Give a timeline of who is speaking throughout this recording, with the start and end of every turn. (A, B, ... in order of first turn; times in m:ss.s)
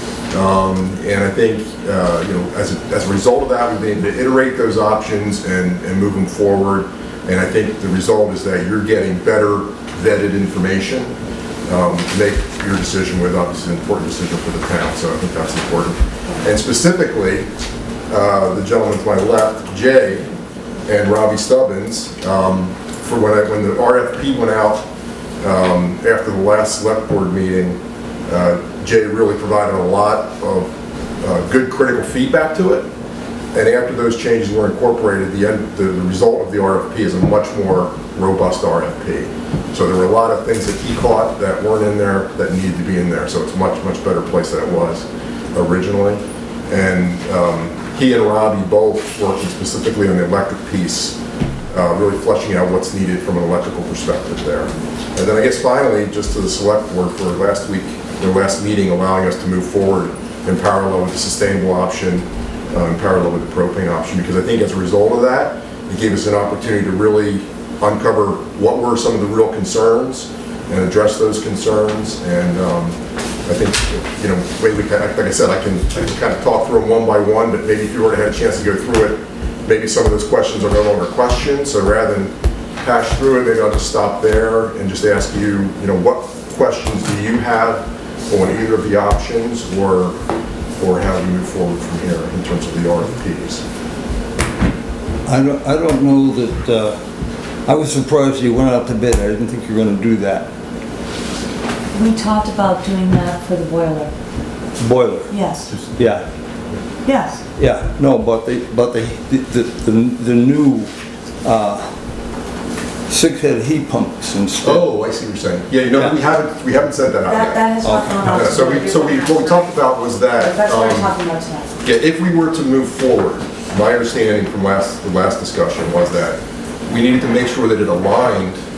0:00.3-0:11.1 A
0:11.6-0:17.5 A
0:18.1-0:20.3 A
0:20.8-0:24.9 A
0:25.4-0:32.9 A
0:33.5-0:51.2 A
0:51.7-1:30.2 A
1:30.8-1:33.6 A
1:35.2-1:37.0 B
1:37.6-1:40.5 B
1:41.9-1:44.1 C
1:44.8-1:45.3 B
1:45.3-1:45.7 C
1:45.9-1:46.2 B
1:47.0-1:47.4 C
1:47.6-1:50.9 B
1:51.4-1:51.9 B
1:53.1-1:54.8 B
1:54.6-1:57.6 A
1:55.9-1:56.2 B
1:57.2-1:59.6 C
1:57.8-1:58.6 B
1:58.2-2:01.1 A
2:00.2-2:01.7 C
2:01.8-2:08.6 A